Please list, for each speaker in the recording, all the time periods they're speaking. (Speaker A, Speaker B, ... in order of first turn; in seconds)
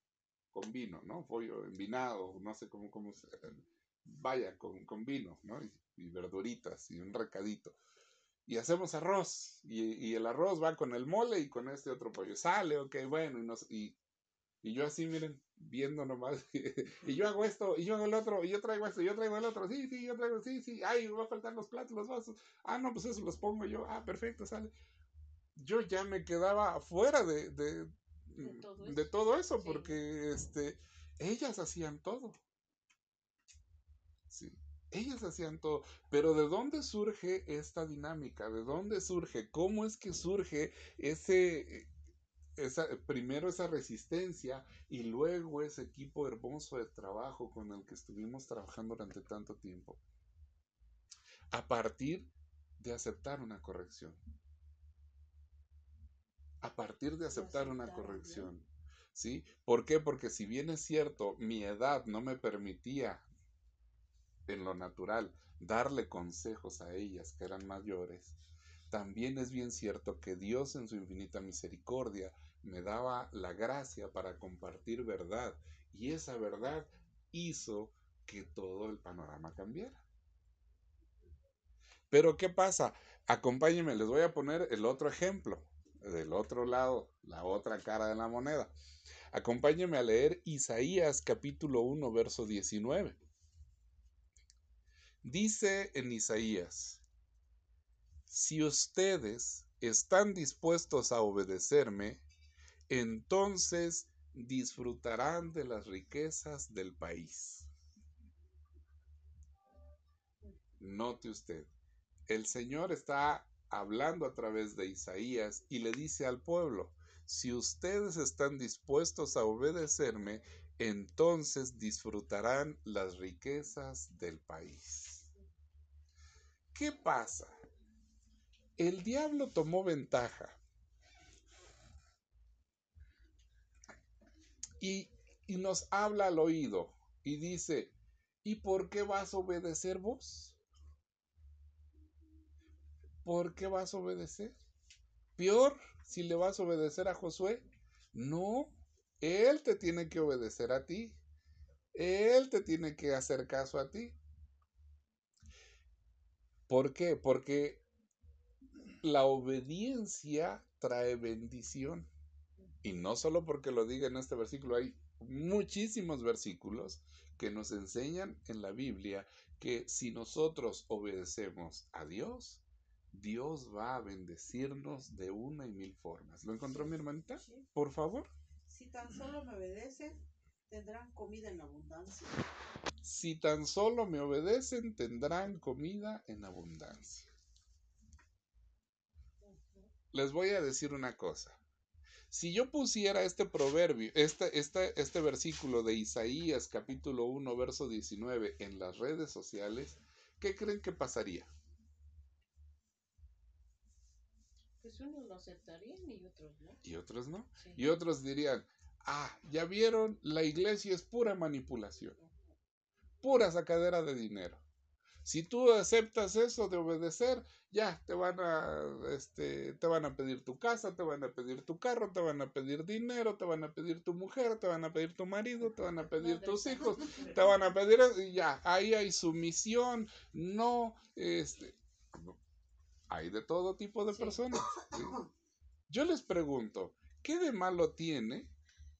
Speaker A: 0.5-7.8, 8.5-14.0, 14.6-24.7, 25.6-32.4, 34.3-41.9, 42.6-50.0, 51.5-54.2, 56.6-63.2, 64.5-68.3, 68.9-80.0, 82.1-88.7, 89.3-93.2, 95.2-97.0, 98.3-102.2, 102.9-107.7, 110.8-111.7, 112.3-125.3, 126.7-127.6, 128.8-130.6, 134.8-140.6, 143.2-144.6, 145.4-151.2, 151.9-154.2, 156.7-157.8, 159.0-162.1, 162.8-178.3, 183.0-187.3, 190.1-191.6, 192.3-201.5, 206.8-212.2, 213.2-214.6, 215.2-232.4, 233.1-235.2, 235.9-238.5
Speaker B: 28.4-30.0, 57.3-58.5, 189.4-189.9, 204.8-206.8, 207.6-207.9, 212.2-212.5, 226.1-227.8, 234.1-234.4
Speaker C: 176.8-177.7, 178.7-182.4